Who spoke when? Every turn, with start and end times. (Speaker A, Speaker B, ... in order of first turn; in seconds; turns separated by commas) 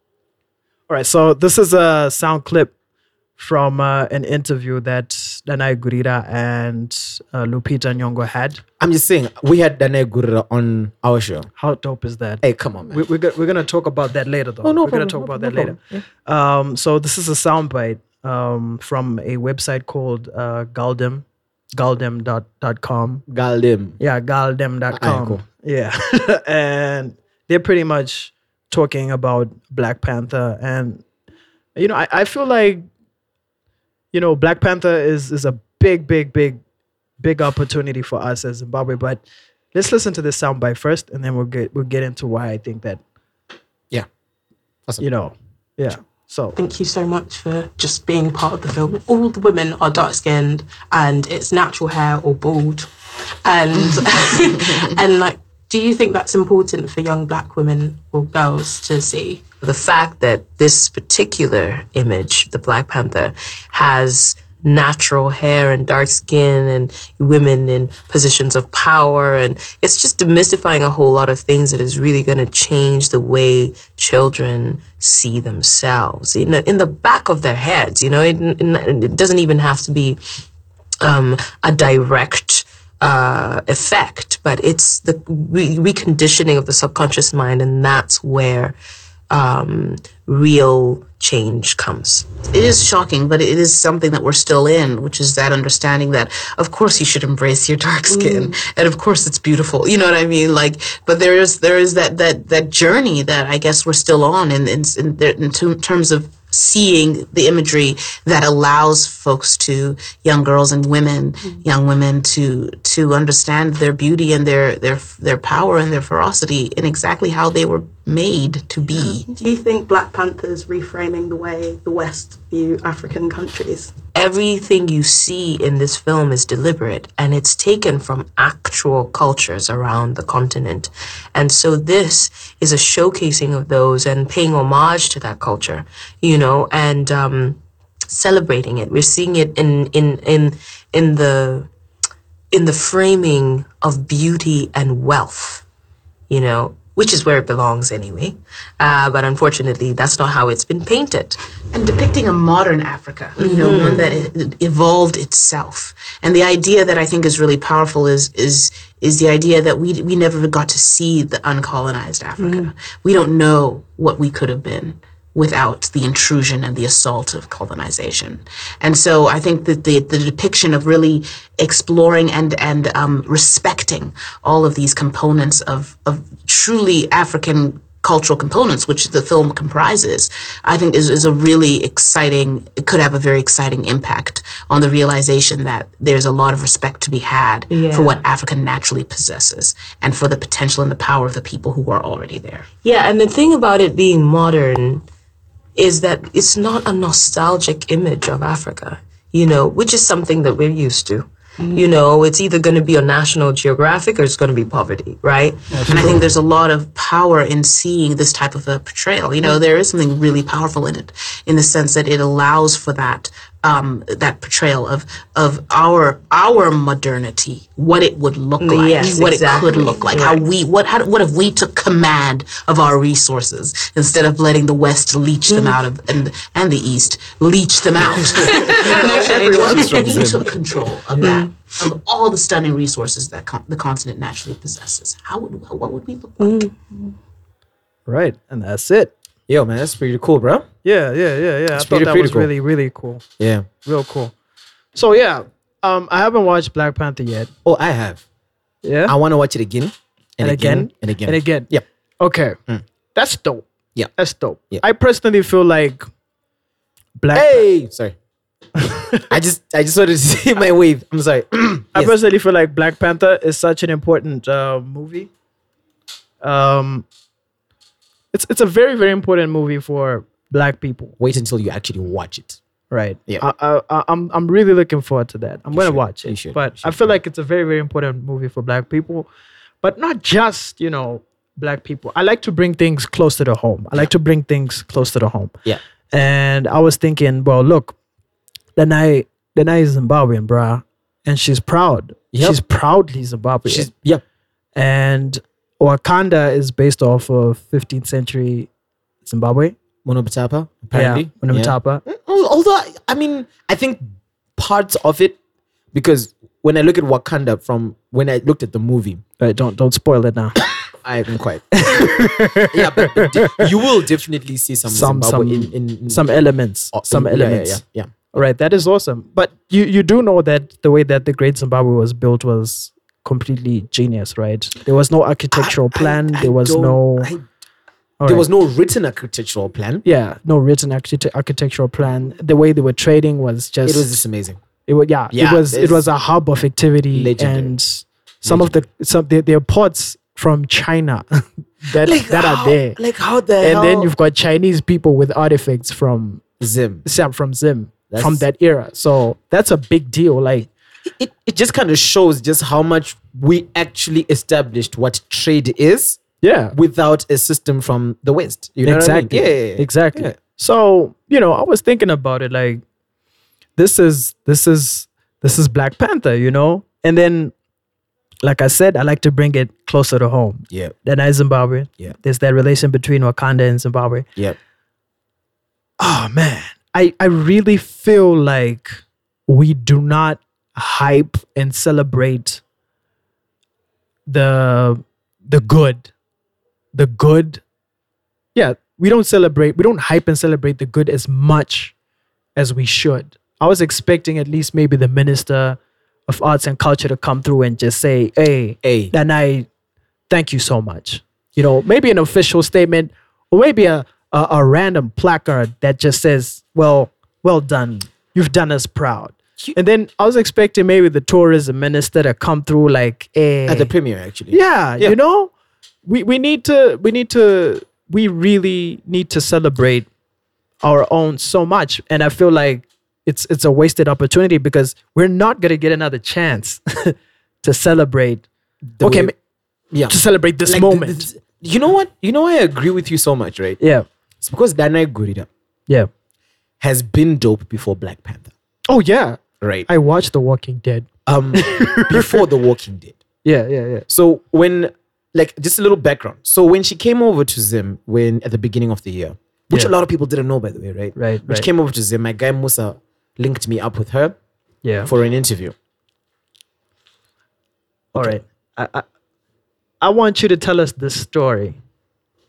Speaker A: 0.9-2.7, Speaker A: 3.4-8.6, Speaker B: 8.8-11.5, Speaker A: 11.6-23.2, Speaker B: 12.4-13.0, Speaker B: 14.6-16.0, Speaker B: 23.3-24.0, Speaker A: 24.0-31.0, Speaker B: 24.9-25.4, Speaker A: 31.8-32.9, Speaker A: 34.1-36.6, Speaker A: 37.2-39.2, Speaker A: 39.7-43.0, Speaker A: 45.0-46.6, Speaker C: 46.6-52.9, Speaker C: 53.4-59.4, Speaker D: 59.6-80.2, Speaker D: 81.0-88.8, Speaker D: 89.3-92.4, Speaker E: 92.5-119.3, Speaker C: 98.1-98.5, Speaker C: 119.0-123.9, Speaker D: 124.1-141.7, Speaker D: 142.5-145.7, Speaker D: 146.3-151.4, Speaker E: 151.7-192.7, Speaker C: 153.4-154.1, Speaker D: 153.4-154.2, Speaker C: 162.4-162.7, Speaker D: 187.7-188.2, Speaker D: 192.8-195.1, Speaker D: 195.8-205.9, Speaker A: 205.7-206.0, Speaker E: 205.8-236.7, Speaker D: 218.6-220.4, Speaker D: 228.7-229.2, Speaker B: 229.0-230.5, Speaker A: 238.1-239.1, Speaker B: 239.5-240.7, Speaker A: 240.8-243.2, Speaker B: 241.7-242.5, Speaker B: 243.4-243.7, Speaker A: 243.8-244.3, Speaker A: 244.9-247.5, Speaker B: 247.7-248.2, Speaker A: 248.8-249.2, Speaker B: 249.1-251.8, Speaker A: 250.4-252.6, Speaker A: 253.1-256.1, Speaker A: 257.2-257.7, Speaker B: 257.3-258.2, Speaker A: 258.8-259.3, Speaker B: 259.3-262.1, Speaker A: 261.9-265.3, Speaker A: 266.4-267.1, Speaker A: 268.3-271.1, Speaker B: 271.2-272.6, Speaker A: 272.9-279.3, Speaker B: 275.7-277.2, Speaker A: 279.8-285.5, Speaker A: 286.1-287.9, Speaker A: 288.8-293.9, Speaker B: 292.3-292.6, Speaker B: 293.6-294.2, Speaker A: 294.8-298.7, Speaker A: 299.2-299.8, Speaker B: 300.1-305.4, Speaker A: 300.9-302.0, Speaker B: 305.9-309.2, Speaker A: 309.4-310.6, Speaker B: 311.0-316.4, Speaker A: 311.7-313.7, Speaker A: 314.9-327.3, Speaker B: 316.9-318.3, Speaker B: 325.5-327.4, Speaker A: 328.2-328.5, Speaker B: 328.2-330.0, Speaker A: 330.1-334.2, Speaker B: 333.9-334.6, Speaker A: 334.9-343.0, Speaker B: 335.3-336.1, Speaker B: 337.1-337.8, Speaker B: 338.4-338.8, Speaker B: 342.0-344.1, Speaker A: 343.6-346.4, Speaker B: 346.6-347.1, Speaker A: 347.0-350.7, Speaker B: 348.1-348.4, Speaker B: 351.1-356.2, Speaker A: 356.4-356.8, Speaker B: 356.7-360.4, Speaker A: 358.8-362.8, Speaker A: 363.8-367.5, Speaker A: 368.4-374.3, Speaker B: 370.7-370.9, Speaker A: 376.0-382.6, Speaker A: 384.3-386.1, Speaker A: 386.9-387.6, Speaker A: 388.6-391.9, Speaker A: 392.6-399.7, Speaker B: 398.8-399.1, Speaker A: 400.3-413.9, Speaker B: 413.7-415.2, Speaker A: 414.5-415.5, Speaker A: 416.1-420.1, Speaker A: 420.8-428.4, Speaker B: 429.0-429.3, Speaker A: 429.0-429.3, Speaker B: 429.9-433.8, Speaker A: 430.1-431.3, Speaker A: 433.8-434.1, Speaker B: 434.4-435.5, Speaker B: 436.8-438.5, Speaker A: 438.9-442.4, Speaker B: 439.6-439.9, Speaker B: 441.3-443.2, Speaker A: 443.4-444.1, Speaker B: 444.1-454.4, Speaker A: 451.2-451.7, Speaker A: 454.8-455.1, Speaker B: 455.1-455.7, Speaker A: 458.1-459.1, Speaker A: 460.0-461.8